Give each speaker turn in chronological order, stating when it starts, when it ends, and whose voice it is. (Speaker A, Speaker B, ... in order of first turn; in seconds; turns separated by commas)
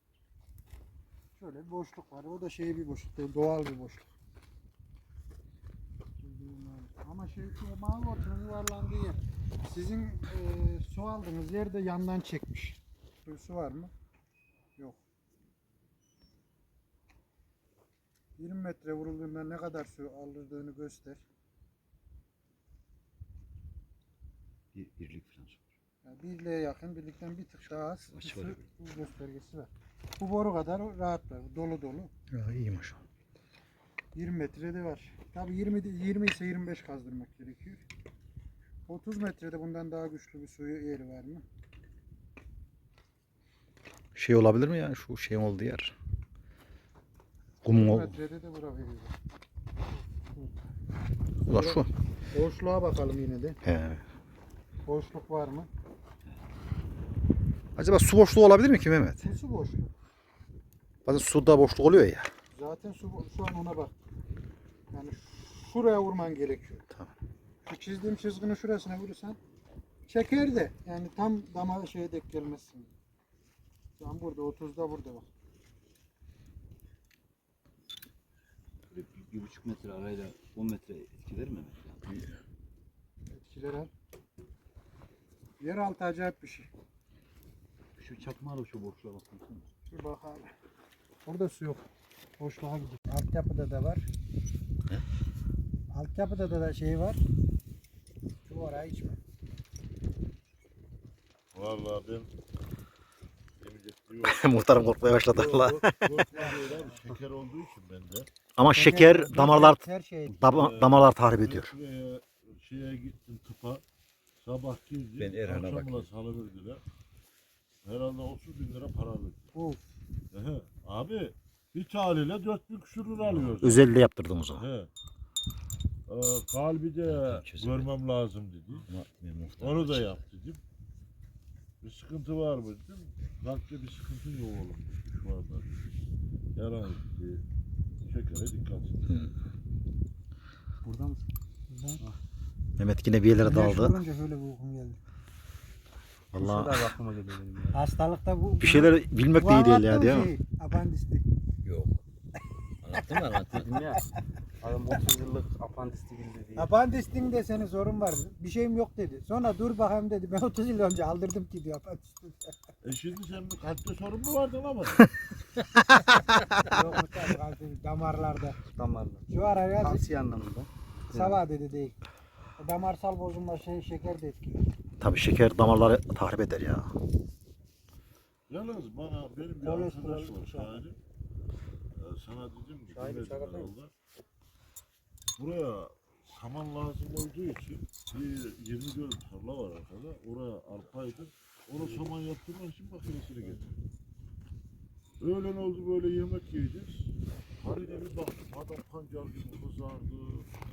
Speaker A: 1.3-4.1, Speaker A: 6.2-13.9, Speaker A: 18.4-21.2, Speaker B: 24.7-25.6, Speaker A: 26.0-32.1, Speaker B: 28.1-28.6, Speaker C: 32.3-33.0, Speaker A: 34.1-37.8, Speaker A: 38.9-41.4, Speaker C: 44.1-45.9, Speaker C: 47.6-48.2, Speaker A: 47.7-49.1, Speaker A: 51.4-53.6, Speaker C: 51.5-51.9, Speaker C: 53.6-54.0, Speaker A: 54.9-55.7, Speaker C: 57.8-59.3, Speaker A: 59.2-59.9, Speaker C: 61.0-62.3, Speaker A: 62.5-63.9, Speaker A: 64.9-66.8, Speaker A: 67.6-69.4, Speaker A: 70.0-72.9, Speaker A: 74.0-75.3, Speaker B: 78.9-82.3, Speaker A: 83.3-83.9, Speaker A: 85.6-86.7, Speaker B: 88.0-89.7, Speaker A: 89.9-90.5, Speaker A: 91.2-91.8, Speaker A: 92.4-94.1, Speaker A: 95.9-97.2, Speaker A: 98.4-99.2, Speaker D: 101.5-102.3, Speaker D: 103.6-108.3, Speaker C: 104.2-106.1, Speaker A: 106.3-107.1, Speaker C: 108.6-111.7, Speaker A: 108.7-110.4, Speaker D: 110.3-113.8, Speaker D: 114.4-116.8, Speaker B: 115.2-116.1, Speaker D: 117.8-119.5, Speaker A: 119.5-119.9, Speaker D: 120.3-123.9, Speaker C: 123.6-124.6, Speaker D: 124.5-124.9, Speaker D: 126.1-128.8, Speaker C: 127.1-127.8, Speaker B: 128.9-130.2, Speaker C: 129.0-130.0, Speaker D: 129.6-130.6, Speaker D: 131.8-135.8, Speaker D: 136.5-137.4, Speaker D: 138.1-139.1, Speaker C: 139.1-139.3, Speaker E: 140.8-141.3, Speaker A: 141.7-142.0, Speaker C: 142.8-144.0, Speaker A: 143.4-145.0, Speaker C: 146.3-146.9, Speaker E: 146.4-147.8, Speaker A: 147.7-151.2, Speaker C: 148.6-150.3, Speaker B: 151.6-152.0, Speaker B: 152.8-153.9, Speaker E: 153.7-154.0, Speaker E: 154.6-156.7, Speaker A: 156.6-162.5, Speaker D: 162.8-165.1, Speaker C: 165.9-166.4, Speaker A: 166.6-168.6, Speaker E: 168.7-171.4, Speaker A: 169.3-170.1, Speaker A: 171.1-172.0, Speaker A: 172.6-174.6, Speaker C: 175.0-176.9, Speaker D: 178.5-181.0, Speaker A: 179.6-180.9, Speaker D: 182.0-183.9, Speaker A: 182.9-183.7, Speaker D: 185.4-193.7, Speaker D: 195.2-200.5